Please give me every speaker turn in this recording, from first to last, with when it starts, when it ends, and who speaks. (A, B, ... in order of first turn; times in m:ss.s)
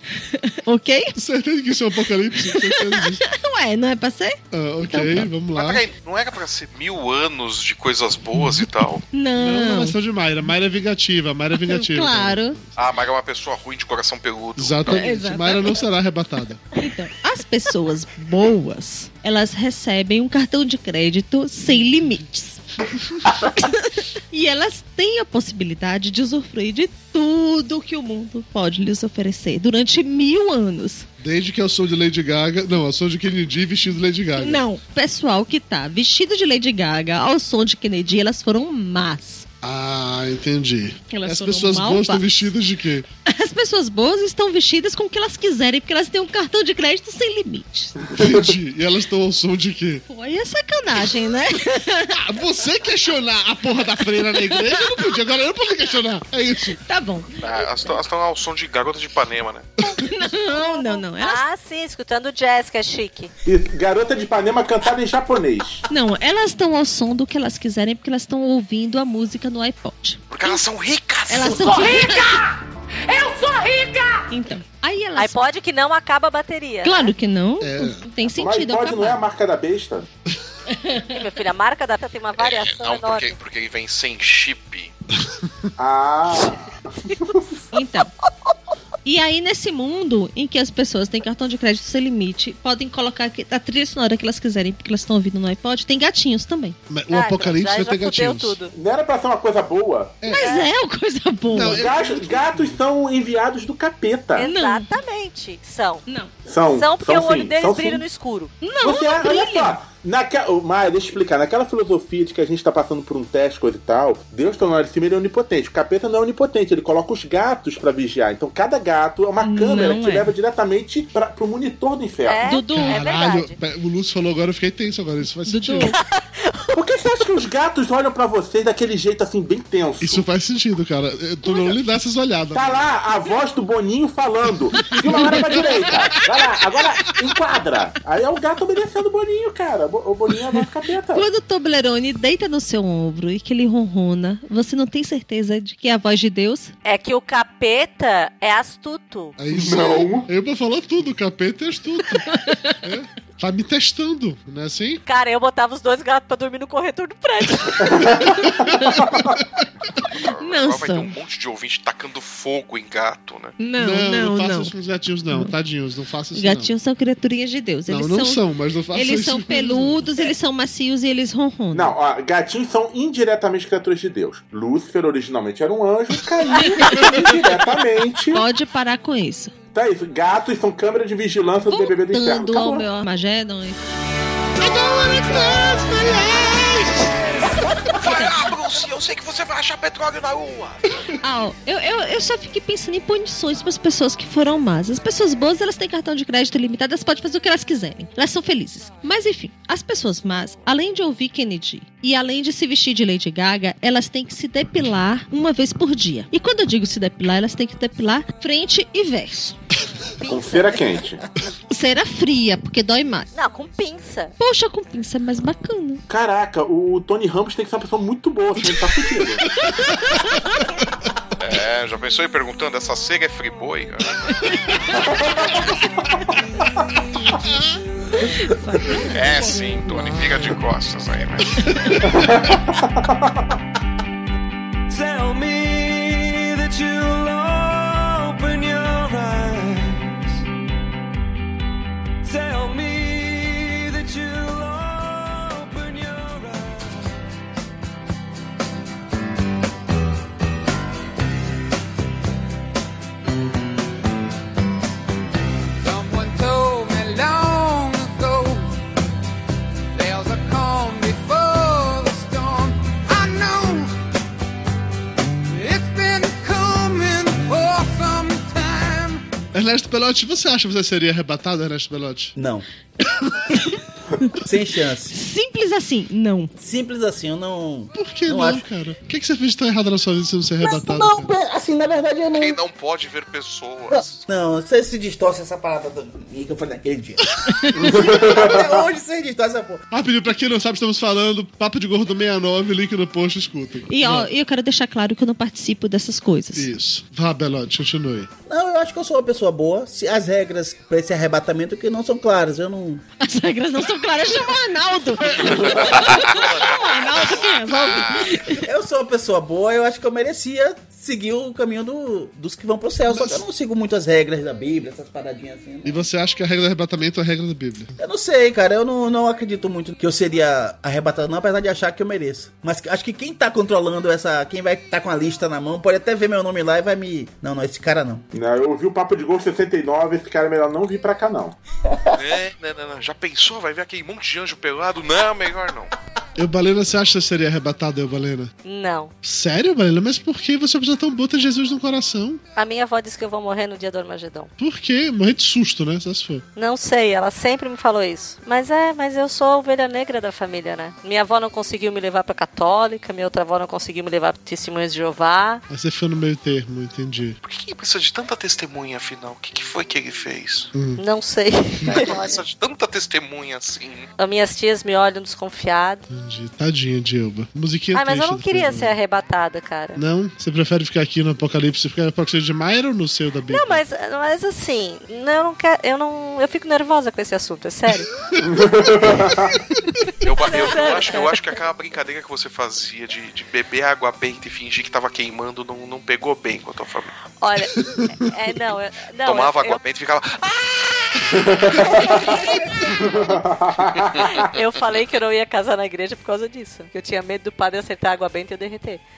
0:00.3-0:01.2 A
0:01.2-0:03.2 B
0:02.4-0:04.4 A
0:04.5-0:05.9 B
0:04.9-0:05.3 A
0:05.6-0:09.0 C
0:09.1-0:10.0 A
0:09.4-0:12.8 B
0:11.6-0:12.6 A
0:12.8-0:14.9 C
0:14.6-0:16.6 B
0:14.9-0:15.7 A
0:16.8-0:22.6 A
0:23.3-0:31.1 A
0:31.2-0:34.6 B
0:34.4-0:39.5 A
0:39.6-0:43.1 B
0:41.1-0:42.3 A
0:43.3-0:48.0 A
0:48.1-0:50.0 B
0:50.1-0:52.2 A
0:52.2-0:56.8 B
0:54.5-0:54.9 A
0:56.8-0:57.9 A
0:57.4-0:59.7 C
1:00.0-1:01.4 A
1:00.8-1:03.3 D
1:03.4-1:05.8 E
1:05.9-1:10.6 A
1:10.3-1:12.2 C
1:11.3-1:12.4 A
1:14.3-1:15.4 A
1:15.2-1:17.1 D
1:16.8-1:19.2 A
1:17.6-1:18.1 B
1:18.3-1:20.1 E
1:20.7-1:21.1 A
1:21.1-1:23.3 D
1:22.4-1:24.9 C
1:25.4-1:25.7 B
1:25.8-1:27.5 E
1:27.7-1:28.1 A
1:29.0-1:36.8 A
1:36.9-1:38.6 B
1:37.1-1:38.7 D
1:38.7-1:40.2 E
1:40.2-1:40.5 B
1:40.2-1:41.9 A
1:40.4-1:40.7 D
1:41.5-1:42.8 B
1:41.6-1:44.5 E
1:44.4-1:46.0 D
1:44.4-1:44.9 A
1:46.1-1:46.3 A
1:46.5-1:48.0 E
1:46.7-1:48.5 D
1:48.6-1:49.8 A
1:48.8-2:02.4 E
1:59.4-2:00.3 A
2:02.2-2:03.6 D
2:02.4-2:03.0 A
2:02.7-2:06.0 B
2:05.5-2:06.0 A
2:06.0-2:06.5 D
2:06.7-2:10.2 E
2:10.0-2:12.8 B
2:12.5-2:21.3 E
2:15.1-2:15.7 B
2:15.2-2:15.8 A
2:21.2-2:26.7 A
2:26.8-2:29.4 D
2:29.4-2:32.3 B
2:29.5-2:30.3 E
2:32.3-2:32.8 A
2:32.8-2:35.0 B
2:35.1-2:38.1 D
2:37.8-2:39.4 E
2:38.8-2:39.0 A
2:40.0-2:43.6 C
2:40.2-2:41.1 A
2:43.6-2:44.7 A
2:43.8-2:46.7 B
2:46.4-2:48.4 A
2:47.9-2:50.0 B
2:48.9-2:51.9 A
2:51.7-2:58.5 E
2:56.6-2:57.2 A
2:58.3-2:59.5 A
2:59.7-3:02.9 E
3:01.7-3:03.8 A
3:04.6-3:07.2 B
3:07.9-3:10.9 C
3:08.0-3:08.4 A
3:11.2-3:29.6 A
3:30.2-3:31.0 D
3:30.3-3:31.2 E
3:31.7-3:33.3 A
3:33.3-3:34.3 D
3:34.4-3:36.0 A
3:36.1-3:39.4 E
3:39.7-3:40.2 B
3:39.9-3:40.3 A
3:41.4-3:44.6 C
3:45.0-3:45.6 E
3:47.4-3:47.8 B
3:48.1-3:48.5 F
3:48.7-3:49.0 A
3:49.1-3:51.6 C
3:51.6-3:52.3 B
3:52.1-3:53.1 E
3:54.9-4:00.4 F
4:02.2-4:07.1 F
4:15.8-4:18.8 G
4:19.9-4:23.9 G
4:25.5-4:29.2 G
4:29.5-4:32.3 B
4:32.4-4:32.6 H
4:34.4-4:35.2 H
4:35.1-4:36.5 A
4:36.6-4:38.6 H
4:38.0-4:41.3 B
4:40.6-4:42.6 H
4:42.3-4:44.2 C
4:43.9-4:49.8 H
4:47.8-4:48.8 E
4:49.9-4:54.3 B
4:53.9-4:56.7 A
4:56.5-4:58.3 B
4:58.5-5:03.0 H
5:03.2-5:08.6 A
5:05.5-5:06.0 H
5:05.5-5:08.2 C
5:08.5-5:16.0 H
5:13.1-5:13.4 B
5:15.8-5:17.9 B
5:18.0-5:28.2 H
5:28.3-5:31.6 E
5:31.9-5:32.2 H
5:32.1-5:35.9 C
5:36.4-5:38.5 B
5:38.6-5:39.1 D
5:39.2-5:42.4 B
5:42.6-5:44.5 D
5:44.6-5:46.4 B
5:46.6-5:55.6 D
5:55.7-5:57.4 B
5:57.4-6:00.7 C
6:00.7-6:01.0 B
6:01.0-6:02.4 D
6:01.8-6:02.1 B
6:01.8-6:04.1 C
6:04.2-6:06.0 D
6:06.1-6:09.0 B
6:07.9-6:10.0 D
6:10.0-6:13.8 B
6:13.5-6:18.1 D
6:18.4-6:19.6 E
6:20.2-6:27.1 C
6:20.4-6:21.4 D
6:27.4-6:29.8 D
6:29.2-6:32.3 C
6:31.4-6:34.5 E
6:32.9-6:34.2 C
6:34.4-6:39.0 D